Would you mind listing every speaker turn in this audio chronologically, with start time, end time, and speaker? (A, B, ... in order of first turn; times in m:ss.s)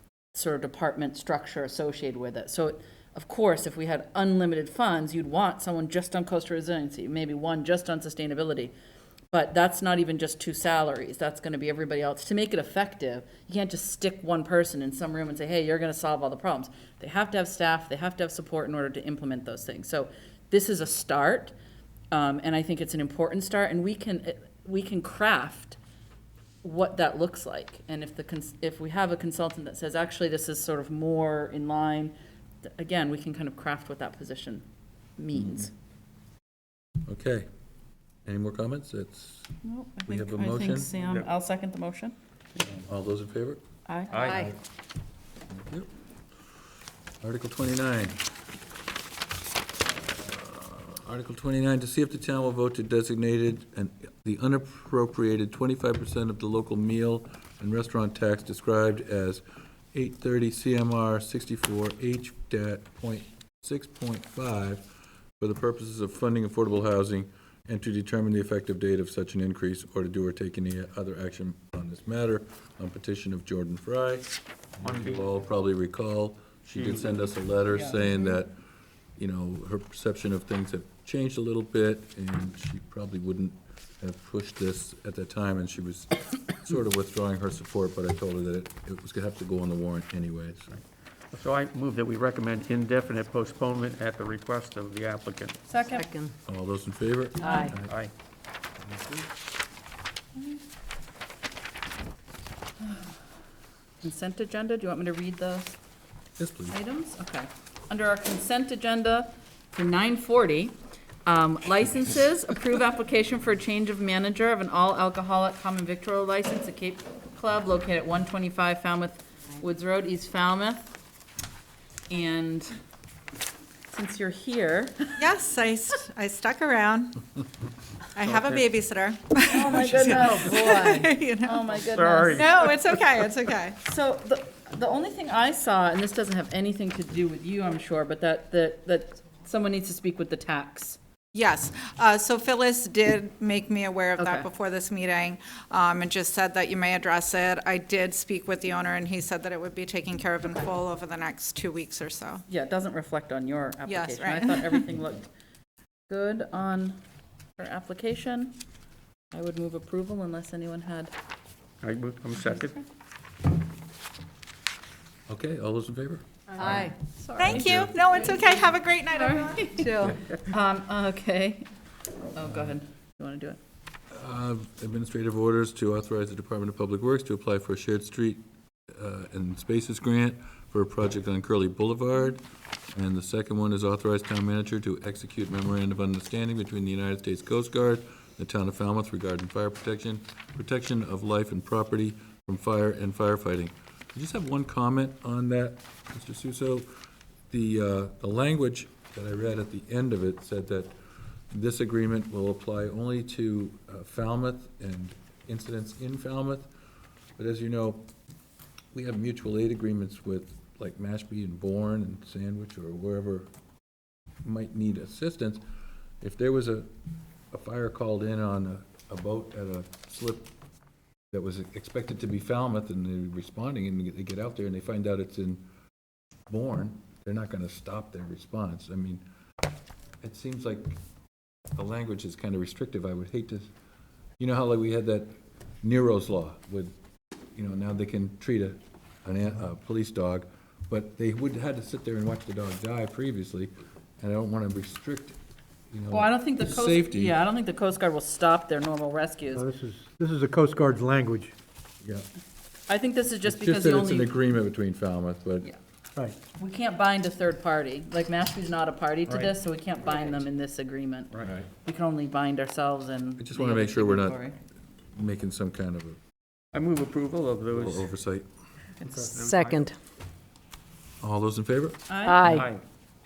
0:00.3-0:08.7 A
0:09.3-0:21.6 A
0:22.1-0:25.8 A
0:26.6-0:32.1 A
0:32.7-0:34.6 A
0:35.2-0:35.7 A
0:35.3-0:35.7 B
0:37.1-0:37.5 B
0:38.3-0:39.6 B
0:39.6-0:42.2 A
0:40.1-0:40.9 B
0:41.0-0:41.3 C
0:42.6-0:43.6 B
0:43.9-0:44.4 A
0:44.1-0:44.5 C
0:44.3-0:44.5 B
0:45.6-0:45.9 B
0:47.2-0:48.2 B
0:50.0-1:04.9 B
1:05.4-1:18.6 B
1:14.8-1:15.3 C
1:16.8-1:17.1 C
1:17.7-1:18.4 A
1:19.2-1:30.8 B
1:31.3-1:35.6 C
1:35.7-1:36.1 A
1:35.9-1:36.4 D
1:36.5-1:37.9 B
1:37.4-1:37.7 D
1:37.9-1:38.1 C
1:44.0-1:45.8 A
1:46.4-1:46.8 B
1:46.7-2:00.9 A
2:02.1-2:02.8 A
2:03.9-2:05.2 A
2:05.2-2:07.2 E
2:08.2-2:11.6 E
2:08.3-2:08.6 C
2:09.5-2:12.8 A
2:11.7-2:12.5 C
2:12.4-2:13.8 E
2:13.8-2:21.0 A
2:21.3-2:32.4 E
2:24.2-2:24.5 A
2:32.5-2:35.3 A
2:33.9-2:34.8 E
2:36.1-2:37.0 A
2:37.6-2:38.6 A
2:39.3-2:41.1 A
2:41.8-2:42.8 C
2:45.3-2:48.0 B
2:46.6-2:51.7 A
2:47.4-2:49.8 E
2:49.8-2:50.2 D
2:52.3-2:53.6 A
2:54.1-3:16.9 B
3:17.5-3:20.9 B
3:21.5-3:26.7 B
3:27.4-3:28.1 B
3:28.9-3:33.5 B
3:34.4-3:35.6 B
3:36.2-3:36.9 B
3:37.5-3:40.5 B
3:41.3-3:45.6 B
3:46.5-3:49.2 B
3:50.2-3:51.0 B
3:51.8-3:53.7 B
3:54.4-3:56.9 B
3:57.5-4:05.4 B
4:05.9-4:07.4 B
4:06.1-4:09.7 A
4:09.5-4:11.6 F
4:12.9-4:14.3 A
4:13.4-4:15.7 B
4:16.6-4:24.6 A
4:23.4-4:24.4 B
4:25.1-4:26.2 B
4:26.7-4:28.1 C
4:27.7-4:28.5 B
4:29.0-4:29.9 C
4:29.4-4:30.0 D
4:31.2-4:32.1 B
4:32.1-4:32.6 A
4:32.2-4:32.7 D
4:32.4-4:32.8 C